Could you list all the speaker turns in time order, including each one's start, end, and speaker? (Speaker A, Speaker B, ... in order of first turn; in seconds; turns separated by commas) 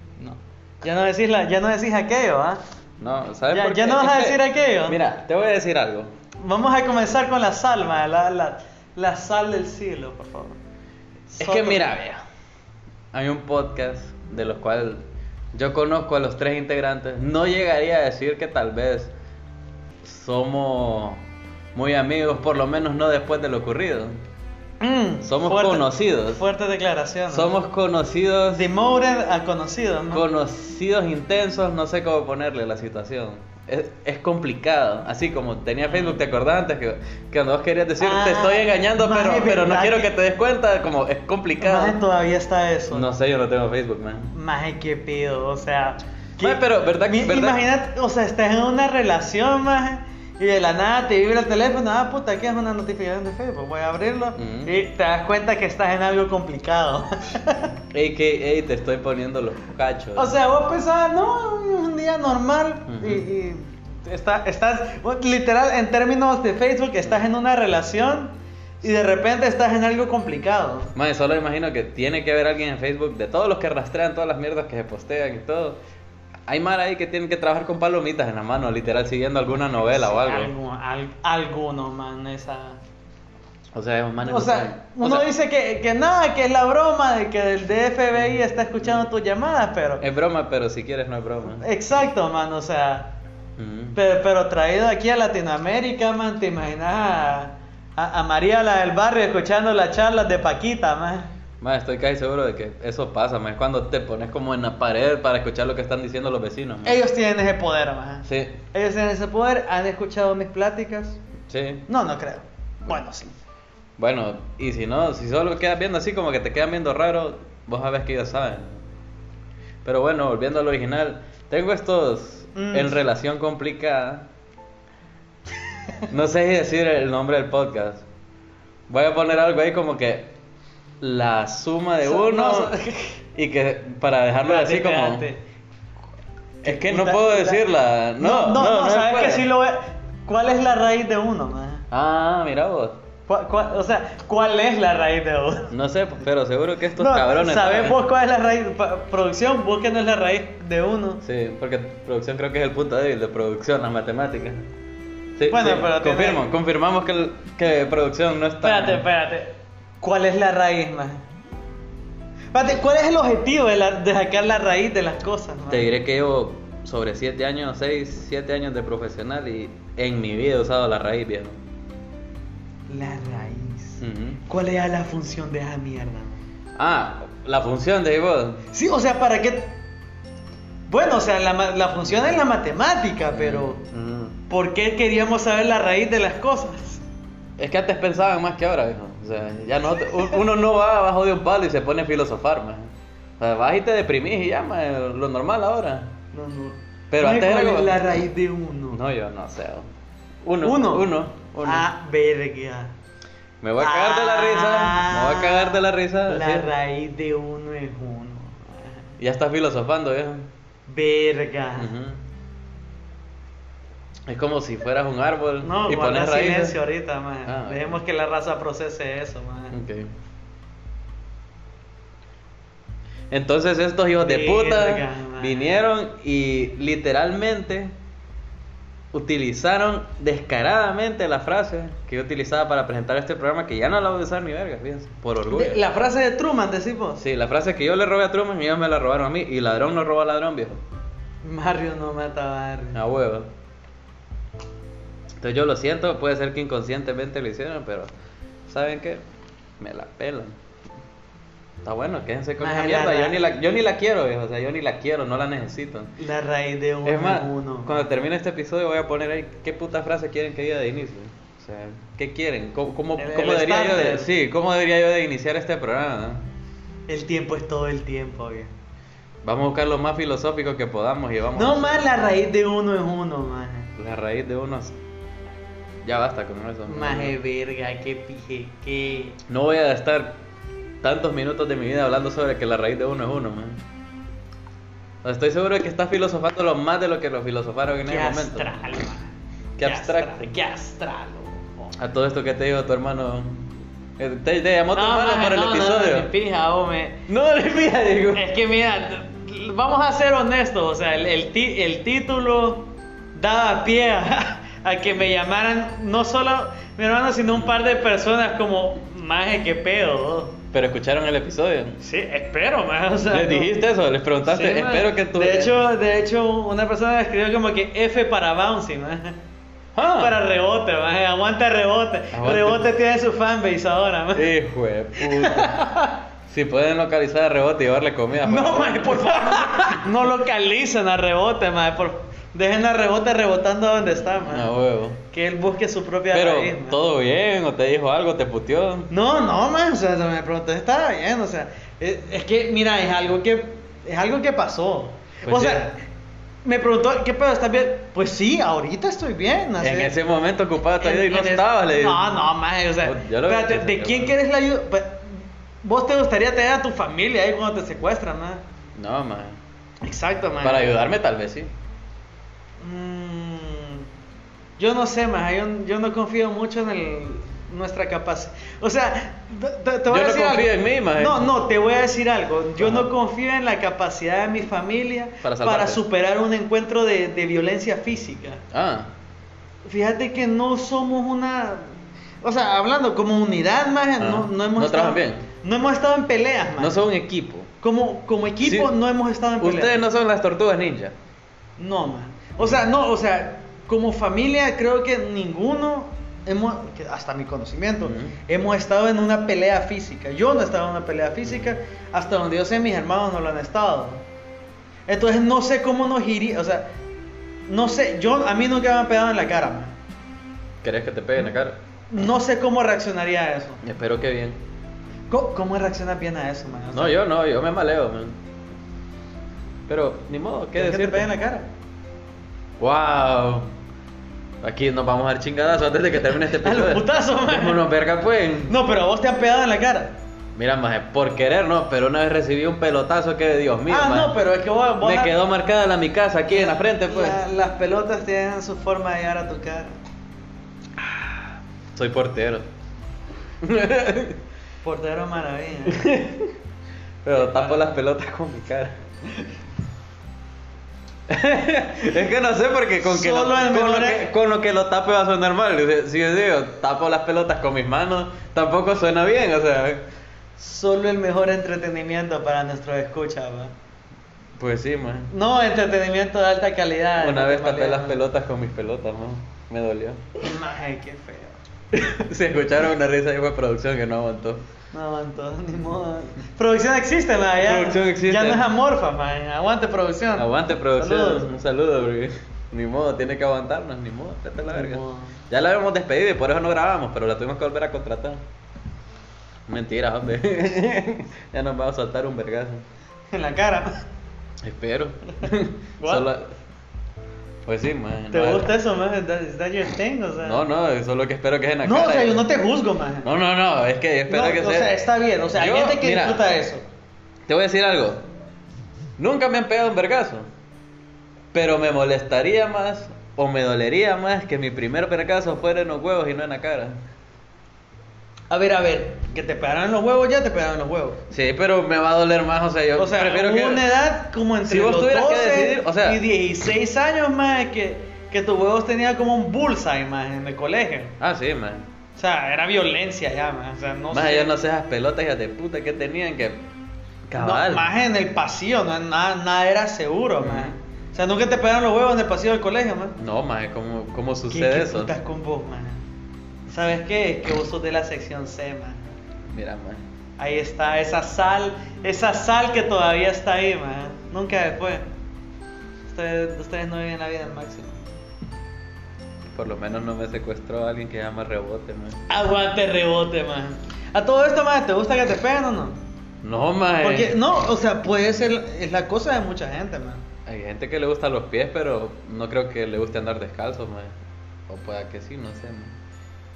Speaker A: 0.2-2.6, Speaker B: 3.0-6.1, Speaker A: 3.5-5.0, Speaker A: 6.4-10.6, Speaker A: 11.3-11.9, Speaker B: 11.4-12.2, Speaker B: 13.1-15.0, Speaker B: 15.5-19.1, Speaker B: 20.0-21.2, Speaker B: 21.7-24.2, Speaker A: 24.8-27.5, Speaker B: 25.2-26.4, Speaker B: 27.3-28.7, Speaker A: 28.5-30.2, Speaker B: 30.1-42.0, Speaker A: 35.9-36.2, Speaker A: 38.0-40.1, Speaker A: 41.6-43.1, Speaker B: 42.9-44.3, Speaker A: 44.3-57.7, Speaker B: 46.4-47.6, Speaker B: 54.4-54.7, Speaker B: 57.9-60.3, Speaker A: 60.1-70.9, Speaker B: 62.9-63.2, Speaker B: 70.9-75.8, Speaker B: 76.5-80.5, Speaker A: 79.7-82.8, Speaker B: 83.7-85.3, Speaker A: 84.2-90.0, Speaker B: 88.2-89.0, Speaker B: 90.0-91.6, Speaker A: 91.6-93.1, Speaker B: 93.6-94.0, Speaker A: 93.9-101.3, Speaker B: 101.6-107.0, Speaker A: 106.8-111.2, Speaker B: 108.3-108.5, Speaker B: 111.5-111.8, Speaker A: 111.9-113.3, Speaker B: 114.0-118.8, Speaker B: 119.8-124.3, Speaker A: 122.5-123.0, Speaker B: 126.1-128.0, Speaker B: 128.9-130.3, Speaker B: 131.0-132.7, Speaker A: 132.0-133.2, Speaker B: 133.3-135.2, Speaker A: 134.4-135.4, Speaker A: 136.6-137.7, Speaker B: 136.6-139.5, Speaker A: 138.2-141.9, Speaker B: 141.9-143.0, Speaker A: 143.3-145.7, Speaker B: 145.7-148.0, Speaker A: 147.0-151.2, Speaker B: 151.2-154.6, Speaker B: 155.4-159.0, Speaker A: 155.5-156.5, Speaker A: 158.6-161.2, Speaker A: 162.5-165.9, Speaker B: 165.7-171.6, Speaker A: 172.9-176.4, Speaker B: 174.0-174.4, Speaker B: 176.8-178.6, Speaker A: 178.7-179.7, Speaker A: 180.9-183.8, Speaker B: 183.3-184.3, Speaker A: 184.5-187.0, Speaker B: 187.6-196.1, Speaker A: 196.3-199.0, Speaker B: 197.1-198.0, Speaker B: 198.9-199.9, Speaker B: 200.4-201.9, Speaker A: 200.6-201.1, Speaker A: 201.6-202.9, Speaker B: 203.6-206.7, Speaker A: 203.8-209.1, Speaker B: 209.2-210.5, Speaker A: 210.9-211.9, Speaker B: 211.8-212.2, Speaker B: 214.3-216.8, Speaker A: 215.6-219.8, Speaker B: 217.4-217.8, Speaker B: 219.7-220.1, Speaker B: 223.3-227.9, Speaker A: 224.2-225.7, Speaker B: 229.1-235.8, Speaker A: 235.5-237.2, Speaker B: 237.2-240.8, Speaker A: 241.4-243.0, Speaker B: 242.9-243.5, Speaker B: 245.4-248.1, Speaker B: 248.7-249.2, Speaker B: 249.8-250.6, Speaker B: 251.8-256.1, Speaker A: 252.6-253.4, Speaker A: 256.2-258.1, Speaker B: 257.0-266.4, Speaker A: 263.2-264.3, Speaker A: 267.1-268.7, Speaker B: 269.4-272.1, Speaker A: 271.5-273.9, Speaker B: 274.0-274.9, Speaker B: 276.0-277.3, Speaker A: 276.9-279.4, Speaker B: 279.5-280.4, Speaker B: 281.0-283.8, Speaker B: 285.2-288.7, Speaker A: 288.1-291.9, Speaker B: 289.8-290.4, Speaker B: 291.9-296.3, Speaker A: 294.9-297.2, Speaker B: 297.3-298.5, Speaker A: 298.3-310.6, Speaker B: 310.7-312.0, Speaker A: 312.0-313.8, Speaker B: 313.3-315.7, Speaker A: 314.4-319.4, Speaker B: 319.9-320.4, Speaker A: 320.1-324.5, Speaker B: 322.3-322.9, Speaker B: 324.3-325.8, Speaker A: 325.2-326.2, Speaker B: 326.5-330.1, Speaker A: 328.4-334.7, Speaker B: 334.4-335.2, Speaker A: 335.3-337.0, Speaker B: 336.3-339.1, Speaker A: 339.1-346.0, Speaker B: 345.4-345.9, Speaker A: 346.6-350.1, Speaker B: 349.8-352.3, Speaker A: 351.0-358.6, Speaker B: 353.0-354.3, Speaker B: 358.9-359.6, Speaker A: 360.0-361.0, Speaker B: 360.6-361.7, Speaker A: 362.8-364.0, Speaker A: 364.8-378.6, Speaker B: 370.1-371.5, Speaker B: 372.8-373.1, Speaker B: 375.4-376.0, Speaker B: 378.7-379.1, Speaker A: 379.8-381.8, Speaker A: 382.4-387.0, Speaker B: 384.2-385.4, Speaker B: 386.8-387.7, Speaker A: 387.8-390.0, Speaker B: 388.6-388.9, Speaker B: 389.6-391.1, Speaker A: 391.8-404.2, Speaker B: 398.0-398.3, Speaker A: 405.1-406.8, Speaker A: 407.7-409.9, Speaker B: 410.8-411.8, Speaker A: 412.1-413.8, Speaker B: 413.8-414.6, Speaker A: 415.3-417.2, Speaker B: 416.9-418.4, Speaker B: 419.9-421.3, Speaker A: 420.8-421.7, Speaker B: 422.8-423.7, Speaker B: 424.6-428.7, Speaker A: 426.4-427.8, Speaker A: 428.7-430.1, Speaker B: 430.5-434.3, Speaker A: 433.9-435.4, Speaker B: 435.0-437.4, Speaker A: 436.5-439.9, Speaker B: 441.9-442.6, Speaker B: 443.6-444.4, Speaker A: 444.8-446.1, Speaker B: 445.9-446.5, Speaker B: 447.2-448.9, Speaker A: 447.3-447.9, Speaker B: 451.3-460.0, Speaker A: 453.0-454.3, Speaker A: 460.6-463.7, Speaker B: 464.6-465.3, Speaker A: 465.3-468.2, Speaker B: 467.2-470.2, Speaker A: 470.4-471.6, Speaker B: 471.9-474.6, Speaker A: 474.9-481.5, Speaker B: 477.6-478.7, Speaker B: 480.4-488.4, Speaker A: 484.7-485.4, Speaker B: 489.7-492.8, Speaker A: 493.3-494.0, Speaker B: 494.6-496.5, Speaker A: 496.0-496.3, Speaker B: 497.6-498.7, Speaker A: 498.3-500.6, Speaker B: 500.4-502.4, Speaker A: 501.8-503.3, Speaker B: 503.2-504.9, Speaker A: 504.3-506.8, Speaker B: 505.5-506.4, Speaker B: 507.5-508.2, Speaker B: 509.2-510.5, Speaker B: 511.5-517.0, Speaker A: 518.5-521.2, Speaker B: 521.3-523.9, Speaker A: 523.0-531.1, Speaker B: 524.6-526.2, Speaker B: 531.2-531.8, Speaker A: 532.2-534.5, Speaker B: 534.1-536.6, Speaker B: 537.3-537.9, Speaker A: 537.4-543.2, Speaker B: 540.4-540.7, Speaker B: 543.2-545.1, Speaker A: 544.5-546.0, Speaker A: 546.7-549.0, Speaker B: 549.5-550.0, Speaker A: 550.4-555.0, Speaker A: 556.1-558.0, Speaker B: 559.5-562.2, Speaker A: 562.3-566.0, Speaker B: 566.4-567.4, Speaker A: 567.0-570.2, Speaker B: 570.5-574.1, Speaker B: 574.7-575.9